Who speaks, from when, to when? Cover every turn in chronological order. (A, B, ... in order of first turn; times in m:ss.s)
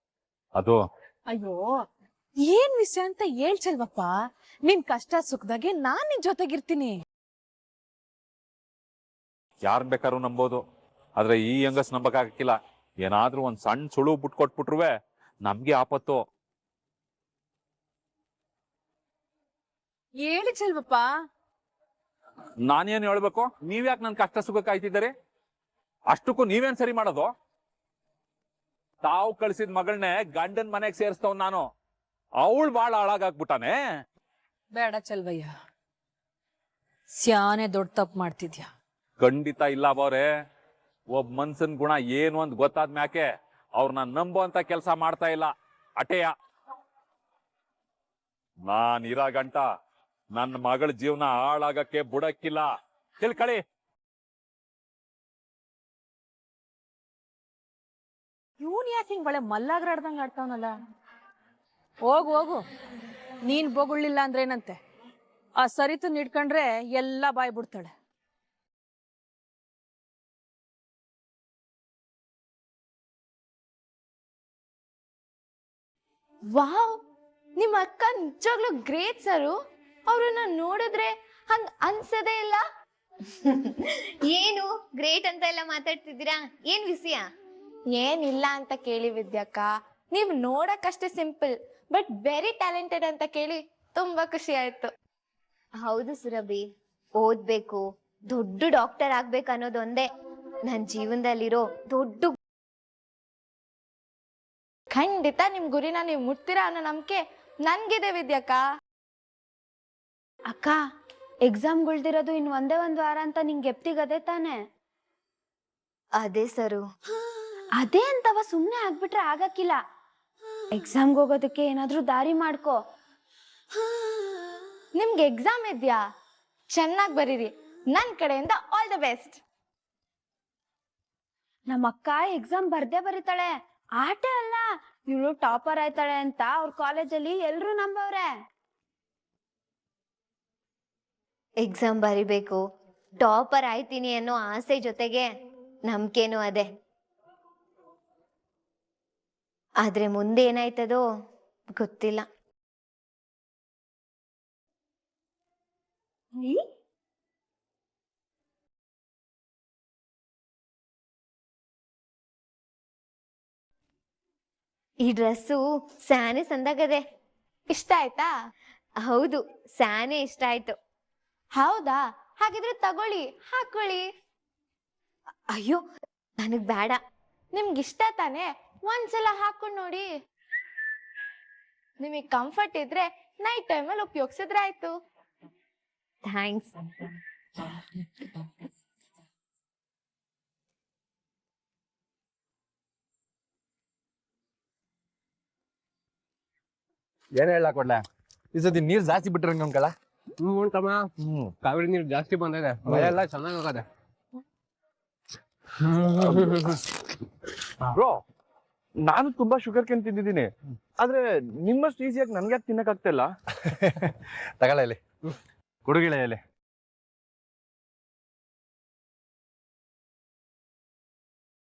0:01.3-0:01.7 A
0:02.4-0:07.0 A
0:09.6-0:10.6 B
0:11.2-0:14.9 B
0:15.4-0:16.2 B
0:20.2-0:21.1 A
0:22.6-0:25.1 B
0:26.1-0:27.3 B
0:29.0-0:31.6 B
0:32.4-0:33.8 B
0:34.7-0:35.5 A
0:37.1-0:38.7 A
0:39.2-0:40.2 B
0:41.1-0:46.3 B
0:48.7-0:49.6 B
0:50.4-0:53.6 B
0:58.6-1:00.7 A
1:02.0-1:02.6 A
1:03.5-1:04.8 A
1:05.6-1:07.9 A
1:16.5-1:17.0 C
1:17.6-1:19.6 C
1:20.1-1:22.6 C
1:23.4-1:27.2 D
1:28.0-1:34.9 C
1:35.8-1:36.6 D
1:37.2-1:40.1 D
1:40.7-1:42.3 D
1:45.0-1:47.2 C
1:47.7-1:48.6 C
1:50.5-1:50.8 E
1:51.5-1:54.6 E
1:56.2-1:56.8 D
1:57.8-1:59.8 E
2:00.7-2:02.8 E
2:05.0-2:06.0 C
2:06.7-2:09.4 C
2:11.7-2:18.3 E
2:21.6-2:22.6 D
2:23.2-2:25.2 D
2:25.9-2:26.7 D
2:29.8-2:31.0 D
2:31.8-2:32.2 D
2:45.0-2:47.0 D
2:47.7-2:48.3 C
2:49.0-2:50.7 D
2:51.6-2:54.0 C
2:55.5-2:55.8 D
2:56.4-2:57.0 D
2:57.6-3:00.1 C
3:02.0-3:04.9 C
3:06.3-3:06.7 D
3:17.4-3:18.0 F
3:18.5-3:19.9 F
3:20.4-3:21.1 G
3:21.2-3:21.5 F
3:21.6-3:23.8 G
3:22.9-3:23.2 F
3:26.2-3:26.5 H
3:28.0-3:28.2 H
3:29.0-3:33.3 H
3:33.7-3:34.1 F
3:34.6-3:35.0 F
3:35.8-3:36.4 F